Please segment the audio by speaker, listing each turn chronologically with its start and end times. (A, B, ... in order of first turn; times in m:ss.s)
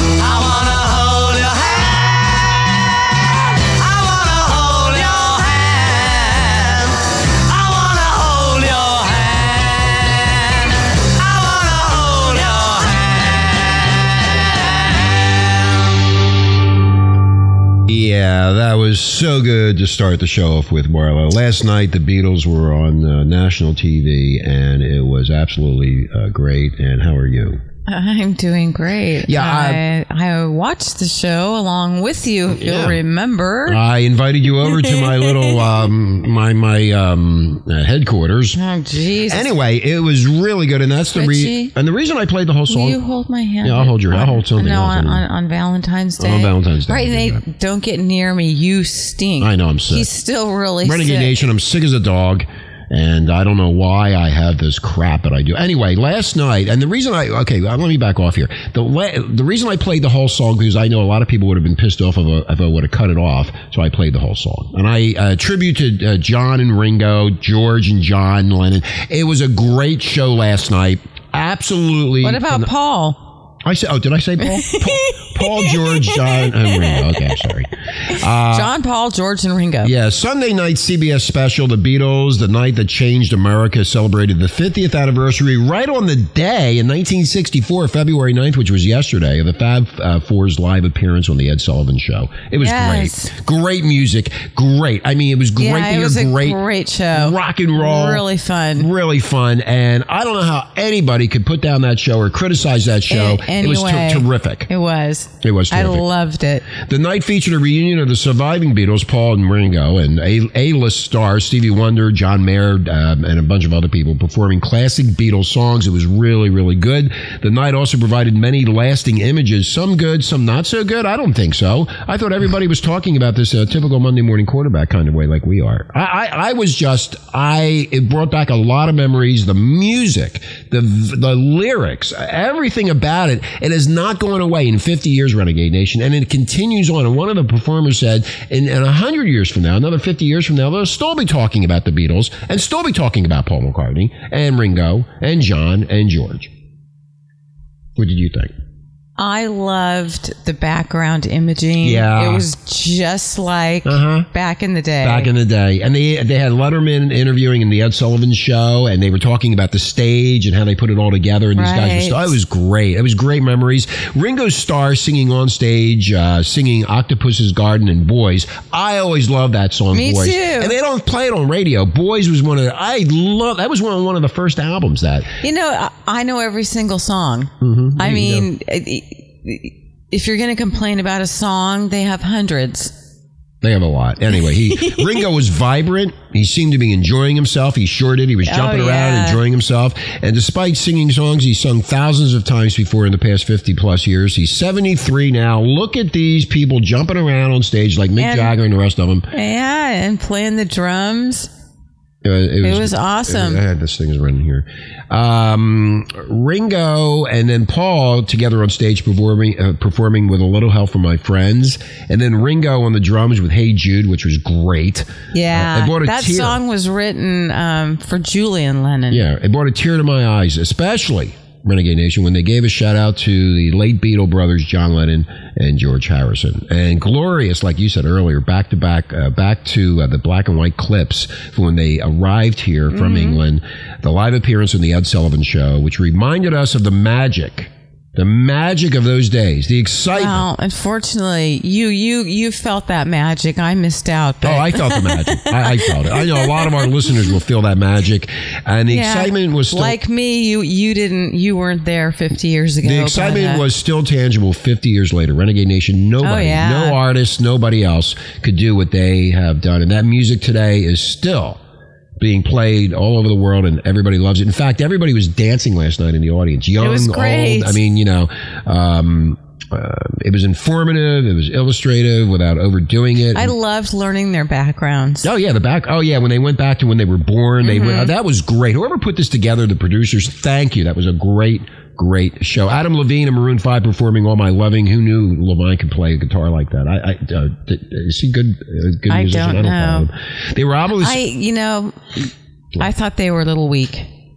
0:00.2-0:03.0 A
0:03.6-0:13.8 A
0:17.9-0:27.6 B
0:27.9-0:33.8 C
0:29.2-0:29.8 B
0:32.5-0:33.0 B
0:33.7-0:38.6 B
0:38.5-0:39.5 C
0:39.3-0:43.0 B
0:41.1-0:41.7 C
0:42.7-0:51.3 C
0:43.6-0:45.2 B
0:46.2-0:47.4 B
0:49.4-0:50.0 B
0:50.8-1:12.7 B
1:12.2-1:13.2 C
1:13.6-1:18.7 B
1:14.4-1:17.4 C
1:18.5-1:19.9 C
1:19.8-1:36.6 B
1:32.6-1:33.3 C
1:35.6-1:38.9 C
1:37.1-1:44.7 B
1:43.1-1:46.7 C
1:45.4-1:46.0 B
1:46.8-2:26.5 B
2:28.0-2:28.5 B
2:29.2-2:35.3 C
2:31.8-2:32.4 B
2:33.8-2:34.3 B
2:35.0-2:55.4 B
2:41.6-2:42.4 C
2:49.9-2:50.7 C
2:55.4-3:02.9 C
2:57.6-2:58.5 B
3:03.6-3:19.3 B
3:04.7-3:05.1 C
3:08.4-3:09.4 C
3:18.2-3:18.5 C
3:19.3-3:21.5 C
3:22.2-3:36.6 B
3:22.6-3:23.6 C
3:35.3-3:39.3 C
3:39.1-4:00.4 B
3:52.9-3:53.4 C
4:00.1-4:06.8 C
4:04.4-4:10.0 B
4:08.9-4:13.6 C
4:12.8-4:21.6 B
4:16.2-4:17.0 C
4:22.2-4:33.5 B
4:26.8-4:27.8 C
4:33.3-4:35.3 C
4:35.2-4:51.2 B
4:37.6-4:38.1 C
4:49.1-4:50.1 C
4:51.0-4:54.1 C